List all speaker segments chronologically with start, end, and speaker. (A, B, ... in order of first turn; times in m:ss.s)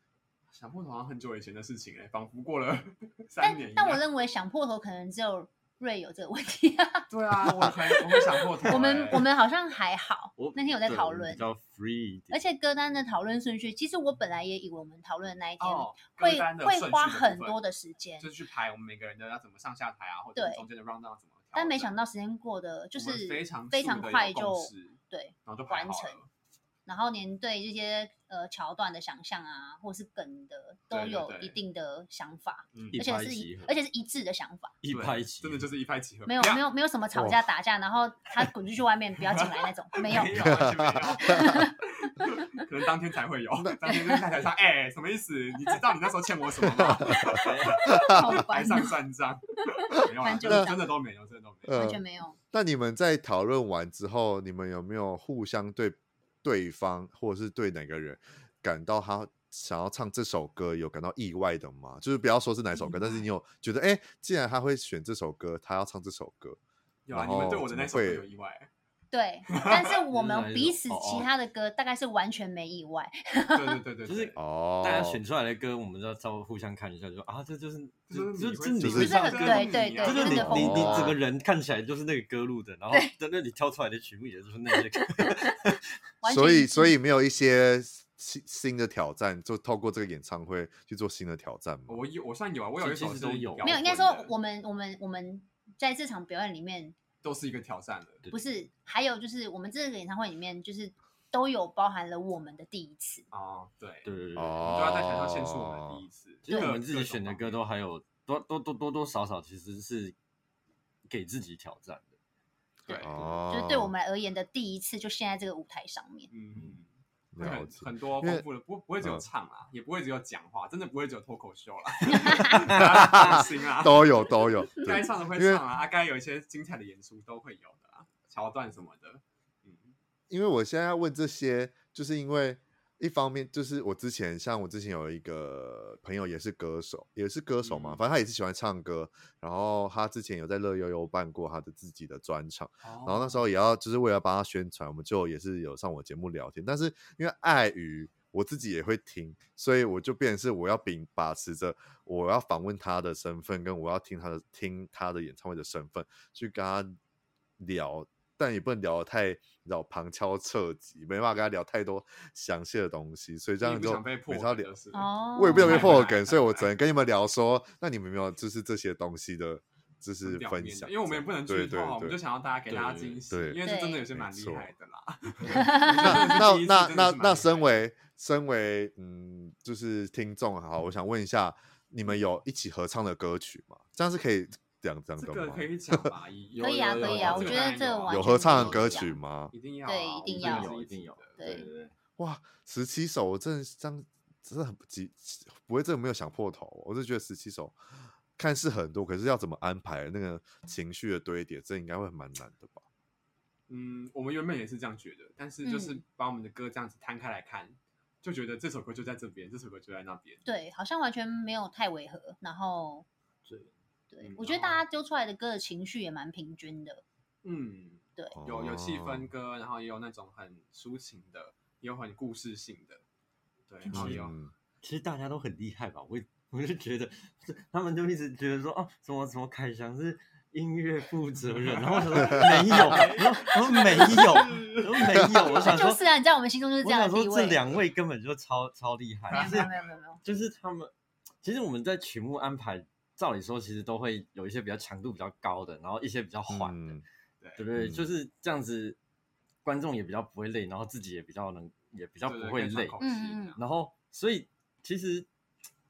0:00.5-0:04.0 A
0:03.4-0:07.1 B
0:07.1-0:09.3 A
0:07.6-0:11.5 B
0:10.4-0:12.4 C
0:12.3-0:18.3 B
0:15.6-0:17.6 A
0:18.2-0:21.9 A
0:20.4-0:20.6 B
0:21.5-0:26.2 B
0:22.9-0:26.3 A
0:26.8-0:34.7 B
0:30.9-0:31.6 A
0:32.7-0:33.0 A
0:32.9-0:33.8 C
0:34.8-0:35.7 C
0:34.9-0:36.6 A
0:36.3-0:40.6 B
0:37.1-0:37.4 D
0:39.4-0:51.8 A
0:40.1-0:40.7 C
0:40.4-0:41.5 D
0:41.2-0:42.2 B
0:43.8-0:44.1 B
0:46.7-0:47.4 D
0:47.2-0:47.9 C
0:47.8-0:48.9 B
0:50.1-0:50.9 B
0:50.4-0:50.7 D
0:51.6-0:52.0 D
0:51.7-0:52.4 B
0:52.5-1:06.6 D
1:02.8-1:03.2 B
1:07.0-1:08.7 A
1:07.1-1:08.2 D
1:09.1-1:13.8 B
1:09.5-1:09.8 A
1:10.1-1:11.3 C
1:13.5-1:14.4 A
1:14.0-1:25.8 C
1:14.4-1:15.2 D
1:18.1-1:20.9 A
1:18.8-1:19.2 D
1:18.9-1:21.2 B
1:20.3-1:21.2 D
1:25.0-1:25.5 B
1:26.2-1:27.0 B
1:26.2-1:32.0 D
1:31.9-1:34.3 A
1:32.8-1:33.8 C
1:33.6-1:36.9 B
1:37.2-1:38.2 A
1:38.3-1:43.2 B
1:43.3-1:44.1 A
1:44.0-1:44.8 C
1:44.4-1:46.0 D
1:44.6-1:47.6 A
1:46.4-1:50.1 C
1:46.5-1:46.7 B
1:51.1-1:52.1 C
1:52.9-1:53.1 A
1:52.9-1:56.3 B
1:53.0-1:53.9 D
1:53.1-1:53.4 C
1:56.3-2:09.9 A
1:57.3-1:58.4 D
2:02.1-2:02.5 B
2:02.7-2:05.6 D
2:10.3-2:37.0 D
2:17.6-2:18.0 A
2:22.8-2:23.4 A
2:37.6-2:44.7 D
2:43.6-2:46.7 A
2:44.9-2:45.9 B
2:45.3-2:52.2 D
2:50.2-2:57.7 A
2:52.7-2:53.2 C
2:53.3-2:54.7 D
2:53.6-2:54.0 B
2:55.5-2:56.3 B
2:56.0-3:06.1 D
3:05.2-3:08.7 A
3:06.5-3:07.7 C
3:06.6-3:09.1 B
3:08.1-3:09.5 D
3:08.4-3:09.0 C
3:09.5-3:11.3 A
3:09.8-3:10.7 B
3:10.2-3:11.9 C
3:11.4-3:11.7 B
3:12.2-3:22.8 D
3:23.7-3:30.4 A
3:25.6-3:26.0 B
3:30.4-3:33.0 B
3:33.4-3:33.7 C
3:34.1-3:37.0 B
3:34.2-3:34.8 A
3:37.4-3:43.0 A
3:38.3-3:39.3 D
3:43.7-3:44.4 A
3:43.9-3:44.3 C
3:43.9-3:44.5 D
3:44.8-3:56.0 C
3:51.5-3:54.8 A
3:53.7-3:54.6 B
3:55.6-3:57.6 B
3:56.8-3:59.7 C
3:59.3-3:59.7 A
3:59.3-4:00.2 B
4:00.2-4:00.9 C
4:01.4-4:07.0 C
4:06.5-4:07.0 D
4:07.6-4:09.0 C
4:07.7-4:08.1 D
4:09.6-4:13.0 C
4:12.2-4:13.6 A
4:13.0-4:13.6 B
4:13.6-4:15.3 C